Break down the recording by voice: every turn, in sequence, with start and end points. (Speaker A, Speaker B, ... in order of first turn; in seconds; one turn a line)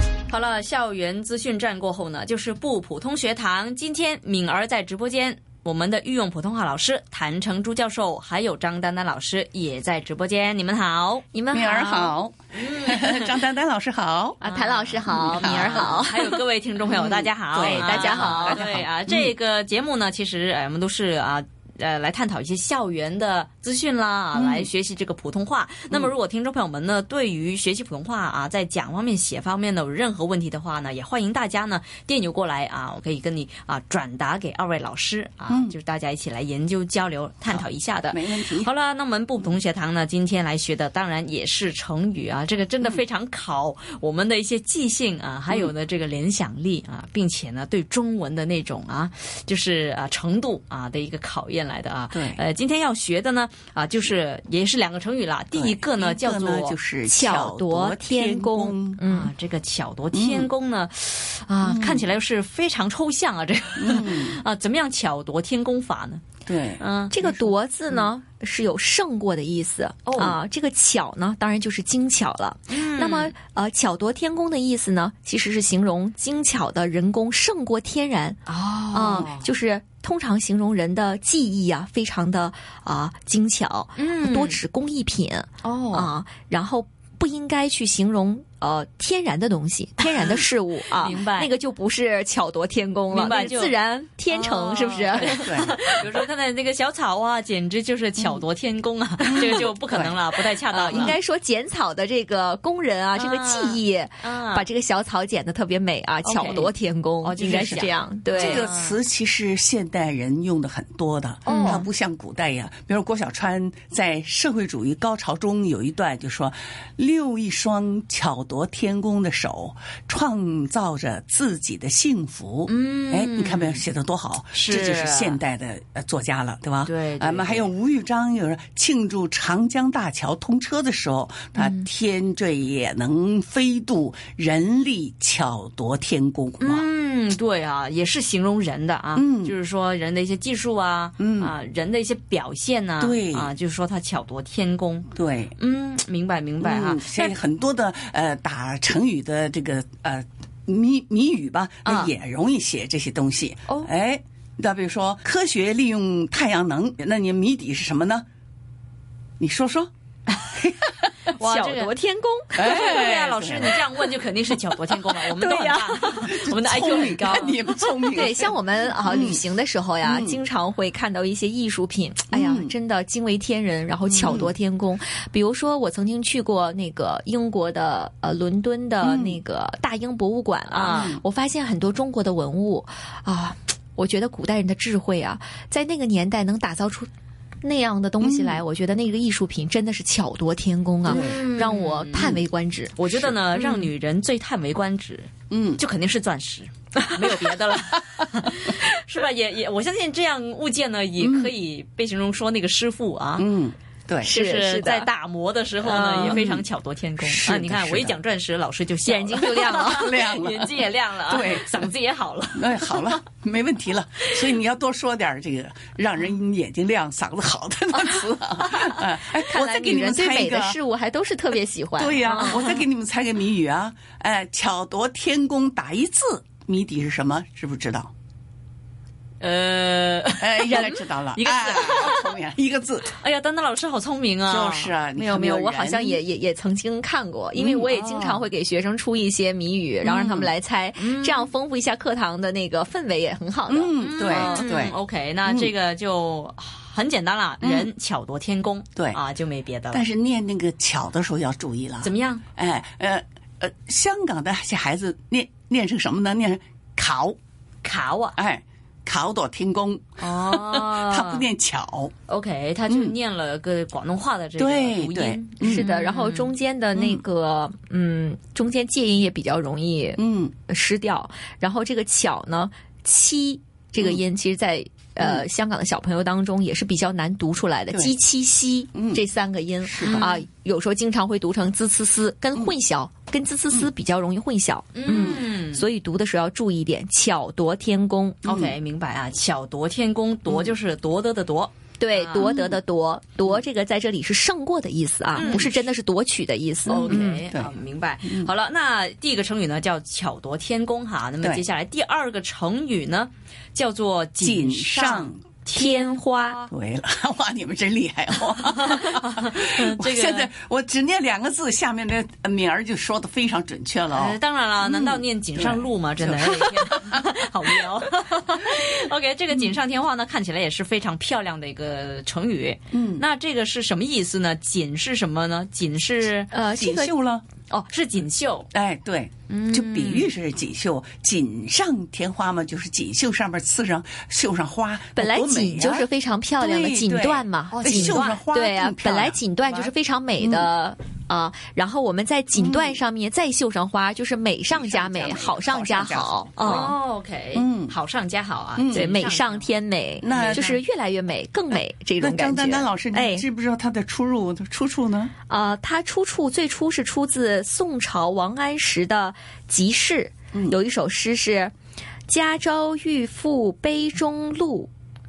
Speaker A: 0.3-11.3
Speaker B: 11.3-12.2
Speaker C: 11.5-14.4
Speaker A: 12.5-13.4
Speaker B: 14.4-16.4
Speaker A: 14.4-56.8
Speaker C: 15.2-15.9
Speaker C: 16.9-19.3
Speaker B: 17.6-18.6
Speaker C: 24.3-24.7
Speaker C: 35.5-35.8
Speaker C: 37.5-38.7
Speaker C: 52.1-52.4
Speaker C: 55.5-59.0
Speaker B: 57.0-59.3
Speaker A: 59.1-66.2
Speaker C: 60.1-60.5
Speaker C: 61.6-62.1
Speaker C: 63.8-64.4
Speaker C: 66.5-67.4
Speaker A: 66.8-67.2
Speaker B: 67.1-96.0
Speaker A: 70.1-70.4
Speaker A: 72.7-73.3
Speaker A: 78.5-79.5
Speaker A: 84.0-84.6
Speaker A: 85.6-86.1
Speaker A: 90.0-91.5
Speaker A: 93.1-93.8
Speaker A: 94.3-101.2
Speaker C: 95.1-95.8
Speaker C: 99.2-100.2
Speaker B: 100.7-108.6
Speaker C: 100.8-101.2
Speaker A: 103.2-104.7
Speaker A: 106.2-109.0
Speaker C: 107.4-136.9
Speaker B: 111.5-111.8
Speaker A: 111.5-111.9
Speaker A: 122.7-123.8
Speaker A: 124.5-125.4
Speaker A: 126.9-127.7
Speaker A: 136.6-147.4
Speaker C: 139.2-139.6
Speaker C: 141.2-141.5
Speaker C: 143.0-143.5
Speaker C: 145.2-145.6
Speaker C: 146.6-158.2
Speaker A: 151.8-152.1
Speaker C: 159.4-159.9
Speaker A: 160.3-160.7
Speaker C: 160.6-161.1
Speaker A: 161.4-161.9
Speaker B: 161.4-162.9
Speaker A: 162.5-168.3
Speaker C: 162.6-163.8
Speaker B: 165.3-166.2
Speaker C: 166.2-169.4
Speaker B: 168.1-187.1
Speaker C: 170.0-170.4
Speaker C: 172.3-172.7
Speaker C: 174.1-174.5
Speaker C: 179.0-179.4
Speaker A: 180.7-181.2
Speaker C: 180.9-181.2
Speaker B: 187.6-192.9
Speaker C: 188.2-188.6
Speaker A: 191.1-192.4
Speaker C: 191.1-191.4
Speaker A: 193.0-203.5
Speaker C: 193.2-193.8
Speaker C: 195.5-195.8
Speaker C: 201.2-201.5
Speaker C: 203.4-204.4
Speaker B: 204.2-205.1
Speaker A: 204.2-213.2
Speaker B: 205.8-206.5
Speaker C: 206.2-206.7
Speaker C: 207.2-208.2
Speaker B: 209.1-210.1
Speaker C: 209.7-211.9
Speaker C: 212.6-220.8
Speaker B: 218.0-222.6
Speaker C: 222.0-228.1
Speaker A: 222.3-222.8
Speaker A: 229.4-232.4
Speaker C: 230.4-233.1
Speaker A: 233.2-234.9
Speaker C: 234.5-236.2
Speaker B: 235.2-244.7
Speaker C: 237.6-237.9
Speaker A: 237.9-238.5
Speaker C: 240.0-240.5
Speaker A: 241.0-241.5
Speaker C: 243.7-245.7
Speaker A: 244.0-250.1
Speaker C: 247.6-247.9
Speaker C: 249.9-257.4
Speaker A: 252.0-252.4
Speaker A: 257.8-258.4
Speaker C: 258.4-262.1
Speaker A: 260.2-261.5
Speaker A: 262.3-266.5
Speaker C: 262.9-263.1
Speaker C: 264.6-265.9
Speaker B: 265.6-288.4
Speaker C: 266.9-267.2
Speaker C: 270.2-270.5
Speaker C: 275.2-275.5
Speaker C: 278.9-279.2
Speaker C: 279.8-280.4
Speaker A: 280.0-280.4
Speaker A: 284.9-285.9
Speaker C: 285.1-285.4
Speaker C: 288.4-288.8
Speaker A: 288.4-292.5
Speaker B: 292.0-297.4
Speaker C: 292.4-292.8
Speaker A: 295.3-295.8
Speaker C: 296.9-297.7
Speaker A: 296.9-306.7
Speaker C: 298.2-298.5
Speaker C: 304.4-305.4
Speaker B: 305.8-306.6
Speaker C: 306.7-317.2
Speaker A: 308.5-310.5
Speaker A: 314.1-326.5
Speaker C: 322.9-323.2
Speaker B: 326.5-327.1
Speaker C: 326.7-327.4
Speaker A: 327.7-328.7
Speaker C: 328.7-340.7
Speaker A: 329.5-330.3
Speaker B: 335.2-346.9
Speaker A: 337.8-338.4
Speaker C: 342.5-343.0
Speaker C: 344.7-346.9
Speaker A: 346.6-349.7
Speaker C: 347.5-347.9
Speaker C: 348.8-349.2
Speaker B: 348.9-353.4
Speaker C: 350.2-350.7
Speaker A: 350.2-350.8
Speaker C: 351.7-355.3
Speaker B: 355.5-361.7
Speaker C: 360.5-360.8
Speaker B: 362.3-364.9